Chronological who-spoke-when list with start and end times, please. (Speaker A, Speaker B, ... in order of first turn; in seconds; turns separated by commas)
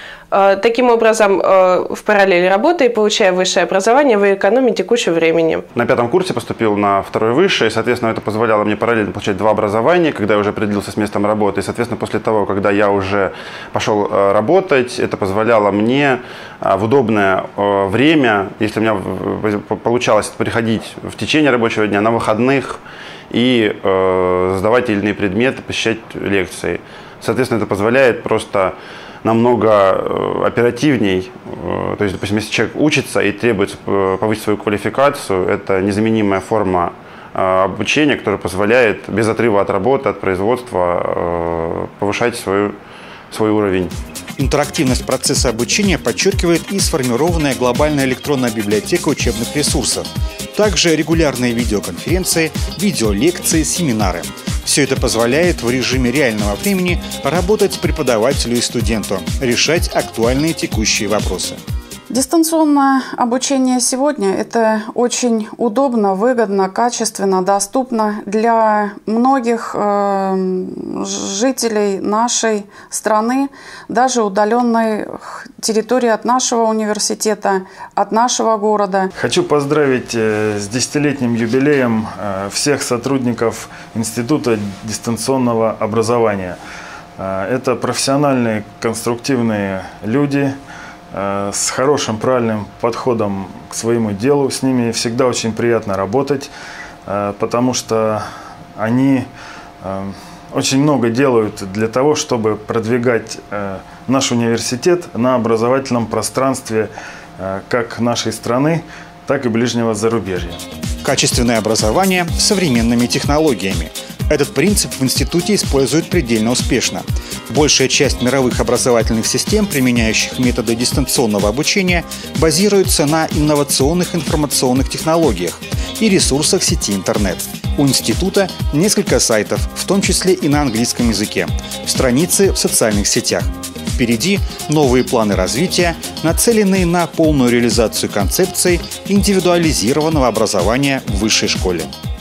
Speaker A: 0.3-5.6, Speaker B: 5.7-42.7, Speaker B: 43.3-43.9, Speaker C: 44.4-61.6, Speaker D: 62.1-79.1, Speaker E: 79.2-86.6, Speaker E: 87.2-90.5, Speaker E: 91.1-96.5, Speaker E: 97.1-98.2, Speaker E: 98.8-99.2, Speaker E: 99.8-110.6, Speaker C: 111.0-141.9